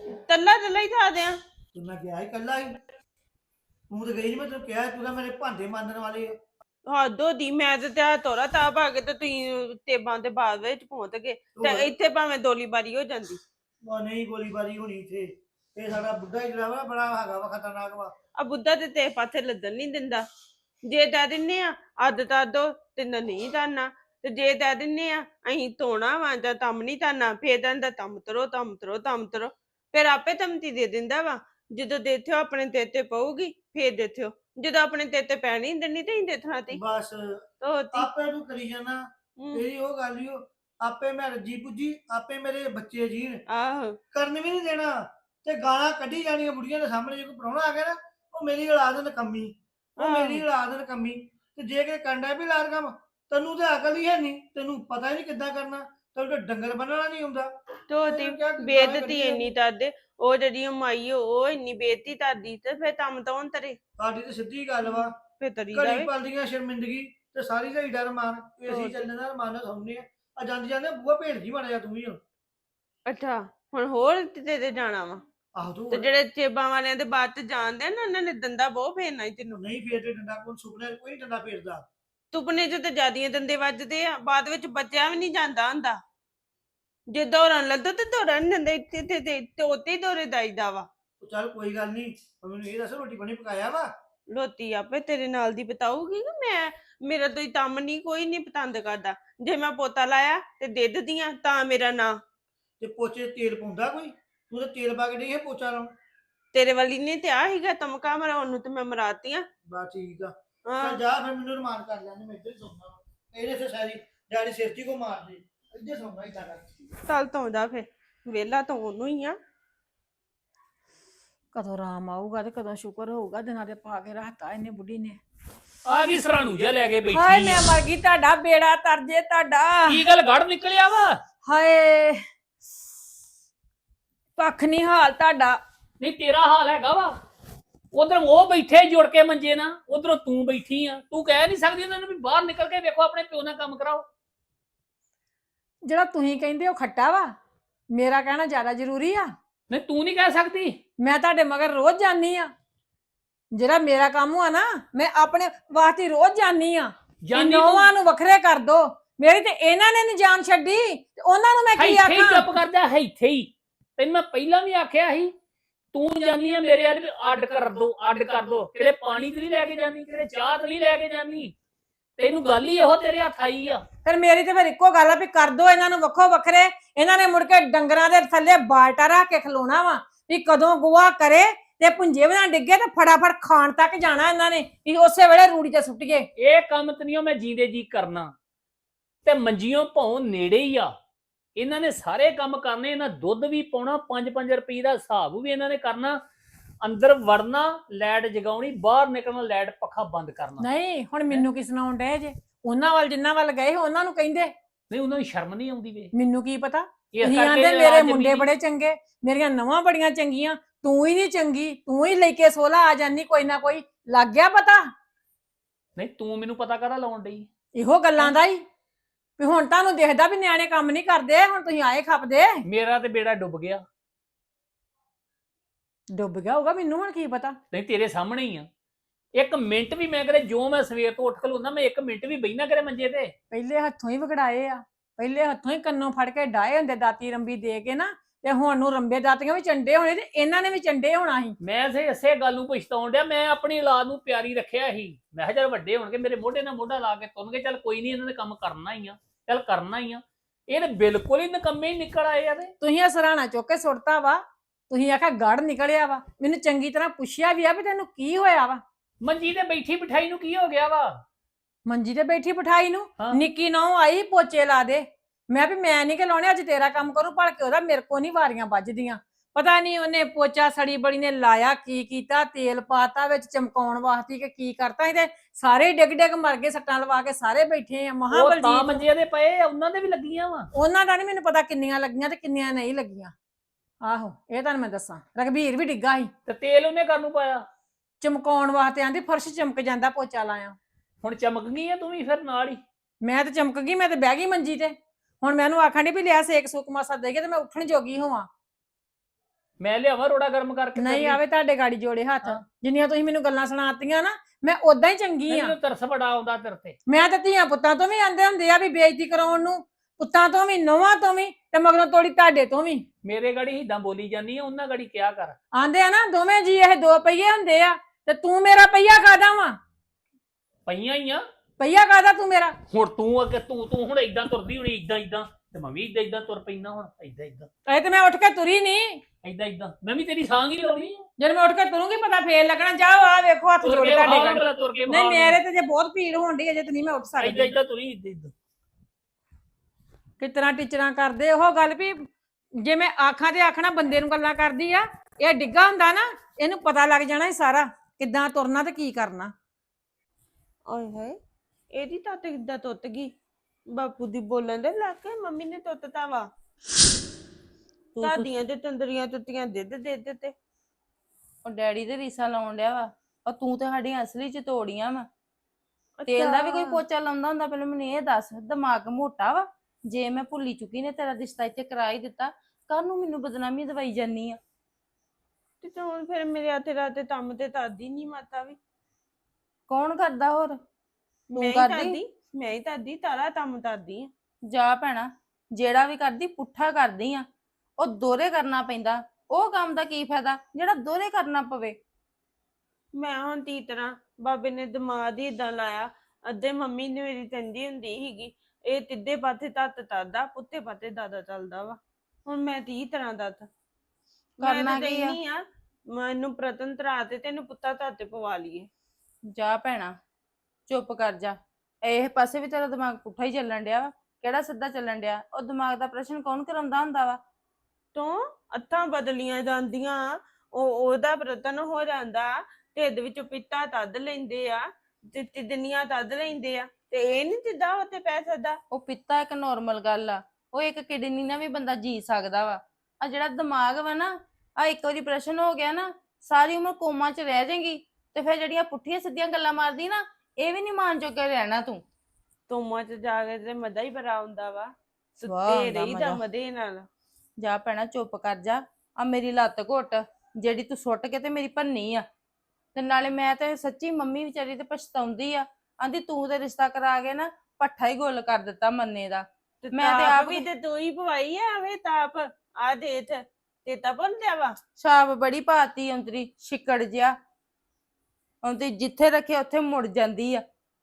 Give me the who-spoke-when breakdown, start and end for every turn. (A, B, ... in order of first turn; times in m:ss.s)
0:00.3-0:01.4 A
0:01.7-0:02.8 B
0:03.9-0:06.4 B
0:06.9-0:13.4 A
0:11.5-0:12.0 B
0:13.8-0:18.1 B
0:18.4-0:20.2 A
0:20.9-0:36.8 A
0:36.7-0:43.4 B
0:37.6-0:38.1 A
0:39.4-0:39.6 A
0:43.5-0:44.0 A
0:44.1-0:59.6 B
0:50.0-0:50.4 A
0:57.9-1:03.8 A
1:04.0-1:05.1 B
1:04.8-1:06.1 A
1:05.7-1:12.2 B
1:08.6-1:09.1 A
1:13.1-1:15.2 A
1:15.5-1:16.1 B
1:15.9-1:19.6 A
1:19.5-1:21.8 B
1:22.3-1:26.0 A
1:27.1-1:30.9 A
1:31.2-1:33.9 B
1:34.3-1:42.2 A
1:42.8-1:45.9 B
1:46.5-1:49.4 A
1:49.7-1:56.6 B
1:50.6-1:51.0 A
1:57.0-1:59.4 A
2:01.5-2:05.2 C
2:05.8-2:07.6 D
2:07.1-2:10.0 C
2:09.9-2:11.2 D
2:11.4-2:12.2 C
2:14.4-2:15.6 C
2:16.0-2:17.1 D
2:17.9-2:24.0 D
2:25.8-2:27.3 C
2:27.9-2:29.3 C
2:29.7-2:30.8 D
2:31.0-2:32.5 C
2:33.5-2:42.5 C
2:37.2-2:37.9 D
2:41.8-2:45.3 D
2:45.9-2:51.5 D
2:52.2-2:53.8 D
2:54.0-3:06.2 C
3:06.4-3:08.3 D
3:09.2-3:10.9 D
3:11.6-3:16.2 D
3:16.8-3:20.6 D
3:20.6-3:24.5 C
3:24.9-3:26.1 D
3:26.1-3:34.8 C
3:27.1-3:28.5 D
3:36.0-3:37.5 D
3:37.7-3:38.6 C
3:39.4-3:42.6 C
3:42.6-3:43.8 D
3:46.1-3:47.6 C
3:47.7-3:48.7 D
3:49.4-3:53.3 D
3:53.5-4:01.6 C
4:01.6-4:12.7 D
4:12.8-4:18.8 C
4:19.2-4:21.1 D
4:21.8-4:39.0 C
4:38.3-4:40.7 D
4:40.7-4:43.3 C
4:44.0-4:46.3 C
4:46.4-4:47.6 D
4:48.2-4:50.8 C
4:51.2-4:52.8 D
4:53.2-4:58.5 C
4:59.8-5:01.4 D
5:01.0-5:05.7 C
5:05.5-5:07.0 D
5:07.1-5:13.0 C
5:13.2-5:15.6 D
5:15.7-5:19.8 C
5:20.8-5:21.4 D
5:21.8-5:22.7 C
5:22.9-5:27.7 D
5:27.9-5:29.2 C
5:29.4-5:31.2 D
5:31.4-5:37.7 C
5:33.8-5:35.6 D
5:37.4-5:38.5 D
5:40.4-5:42.2 C
5:42.8-5:49.5 C
5:50.9-5:51.4 A
5:51.9-5:53.3 A
5:53.9-5:56.5 A
5:58.1-5:58.5 E
5:58.2-6:00.5 A
6:01.6-6:05.3 E
6:06.2-6:07.0 A
6:06.3-6:14.6 E
6:15.8-6:18.8 A
6:19.9-6:20.8 E
6:21.5-6:24.3 A
6:21.6-6:22.2 E
6:24.7-6:27.4 E
6:28.0-6:32.0 E
6:33.1-6:43.7 A
6:44.6-6:45.6 A
6:44.6-6:45.4 E
6:46.1-6:48.9 A
6:49.5-6:50.1 E
6:50.9-6:57.4 E
6:58.1-7:08.8 A
7:08.9-7:22.0 E
7:22.7-7:27.1 A
7:25.4-7:26.4 E
7:27.6-7:32.2 E
7:32.9-7:40.6 E
7:39.8-7:44.8 A
7:45.0-7:47.3 E
7:48.6-7:50.6 E